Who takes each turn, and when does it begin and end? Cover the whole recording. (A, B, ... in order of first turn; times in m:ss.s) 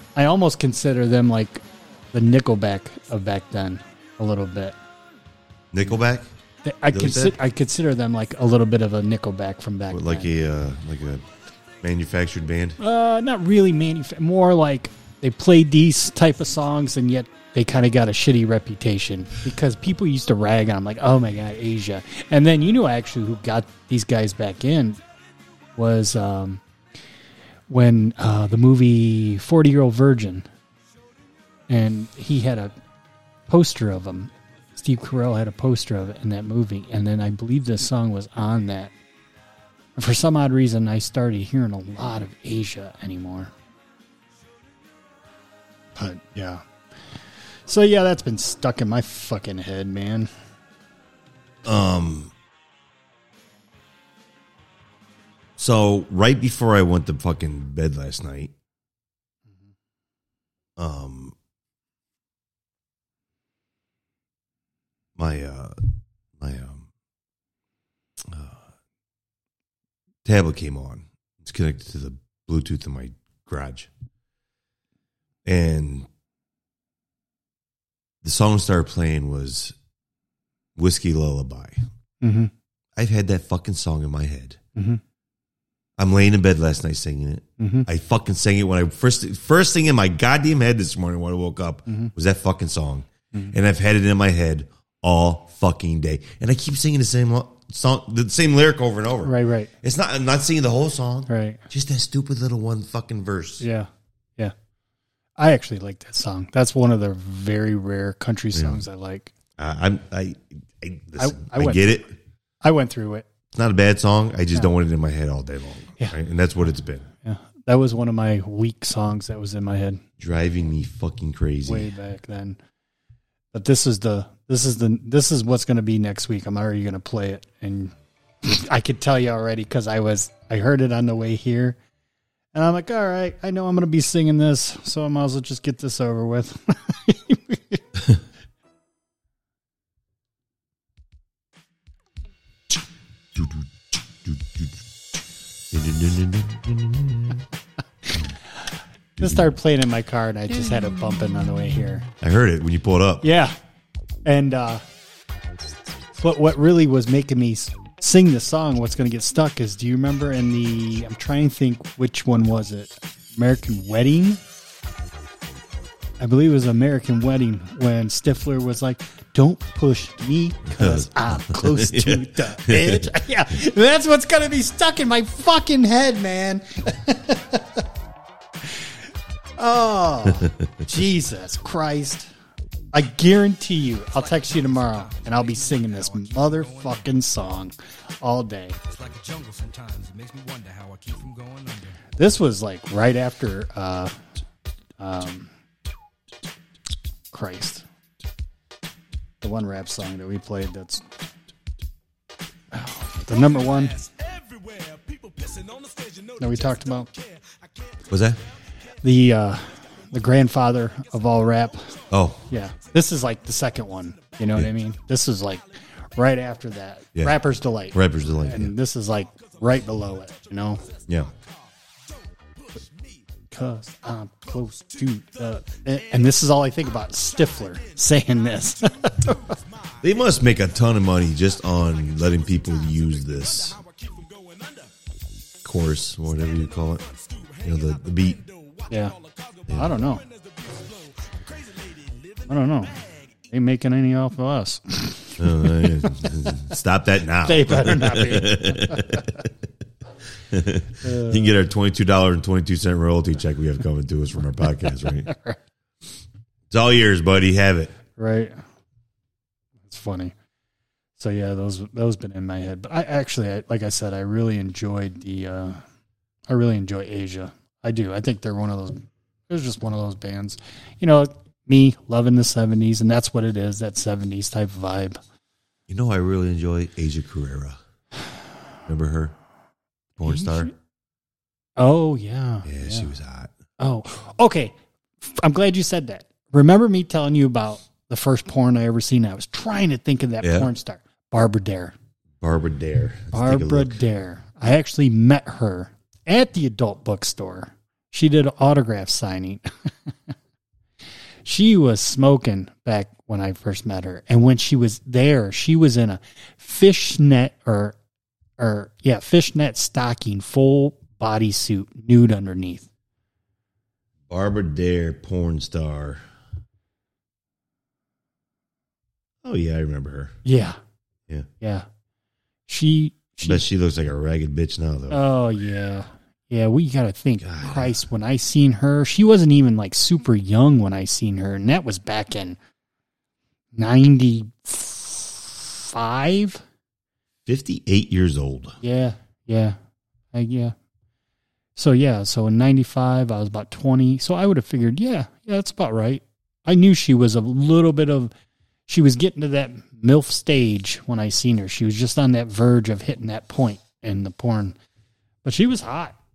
0:00.2-0:04.8 A
0:05.7-0:06.3 B
0:06.6-0:10.3 A
0:06.9-0:07.4 B
0:09.9-0:11.3 B
0:11.8-0:12.8 B
0:12.8-0:25.0 A
0:25.8-0:26.6 A
0:27.7-0:30.5 A
0:31.7-0:32.7 A
0:33.5-0:38.9 A
0:40.0-0:43.5 A
0:46.0-0:46.6 A
0:47.7-0:50.3 A
0:51.6-0:52.3 B
0:55.6-0:58.5 B
1:00.8-1:01.4 B
1:05.2-1:05.8 B
1:06.4-1:06.9 B
1:08.2-1:08.6 B
1:10.2-1:13.9 B
1:15.4-1:16.1 B
1:18.2-1:19.8 B
1:20.8-1:21.8 B
1:22.2-1:22.5 A
1:23.0-1:24.6 B
1:24.8-1:25.0 A
1:26.0-1:43.6 B
1:27.6-1:27.9 A
1:31.9-1:32.1 A
1:39.2-1:39.7 A
1:41.3-1:41.6 A
1:43.6-1:44.5 A
1:45.4-1:49.3 A
1:48.5-1:48.8 B
1:49.6-1:52.1 B
1:51.2-1:52.0 A
1:52.6-1:53.3 A
1:53.5-1:57.1 B
1:57.2-2:00.0 A
2:00.2-2:01.9 B
2:01.7-2:02.6 A
2:03.5-2:11.8 A
2:12.5-2:17.8 A
2:23.4-2:23.6 B
2:24.2-2:24.7 B
2:25.7-2:27.4 B
2:29.2-2:29.5 B
2:29.2-2:32.1 A
2:32.2-2:33.2 B
2:33.2-2:33.5 A
2:34.2-2:34.8 A
2:36.2-2:44.4 A
2:46.2-2:57.8 A
2:50.8-2:53.1 B
2:59.6-3:02.3 A
3:00.3-3:00.9 B
3:02.9-3:08.8 A
3:04.2-3:07.2 C
3:08.9-3:12.0 C
3:12.2-3:14.2 A
3:15.0-3:15.5 A
3:17.3-3:17.8 A
3:19.4-3:21.1 A
3:22.7-3:24.0 A
3:23.3-3:28.0 C
3:26.4-3:27.1 A
3:28.1-3:28.4 B
3:29.0-3:40.8 A
3:32.1-3:32.4 B
3:37.9-3:38.7 B
3:42.8-3:43.1 C
3:43.5-3:49.6 A
3:49.3-3:49.9 C
3:50.0-3:53.8 B
3:53.8-3:54.9 C
3:55.6-3:57.1 B
3:57.2-3:57.6 C
3:57.6-3:58.4 B
3:58.9-3:59.2 A
3:59.7-3:59.9 B
3:59.7-4:00.2 A
4:00.3-4:02.4 C
4:02.5-4:06.3 A
4:05.4-4:09.5 B
4:07.4-4:09.3 A
4:10.5-4:15.3 B
4:11.0-4:11.6 A
4:15.2-4:15.6 A
4:16.7-4:18.0 B
4:18.2-4:18.6 A
4:19.9-4:20.3 A
4:21.2-4:25.8 A
4:26.5-4:35.2 A
4:35.9-4:37.8 B
4:38.9-4:39.4 B
4:40.2-4:40.7 B
4:40.3-4:40.7 A
4:41.8-4:43.1 A
4:42.6-4:43.5 B
4:43.8-4:52.0 A
4:50.4-4:50.7 B
4:52.4-4:54.0 B
4:53.3-5:00.1 A
5:01.4-5:08.0 A
5:08.6-5:12.9 A
5:14.3-5:16.2 B
5:19.4-5:20.4 B
5:20.4-5:20.8 A
5:22.7-5:23.6 A
5:23.4-5:25.2 B
5:25.1-5:32.6 A
5:27.4-5:27.9 B
5:33.8-5:36.6 A
5:37.5-5:38.8 B
5:38.8-5:39.8 A
5:40.3-5:40.8 A
5:41.8-5:48.3 A
5:48.9-5:54.8 A
5:55.4-5:56.2 A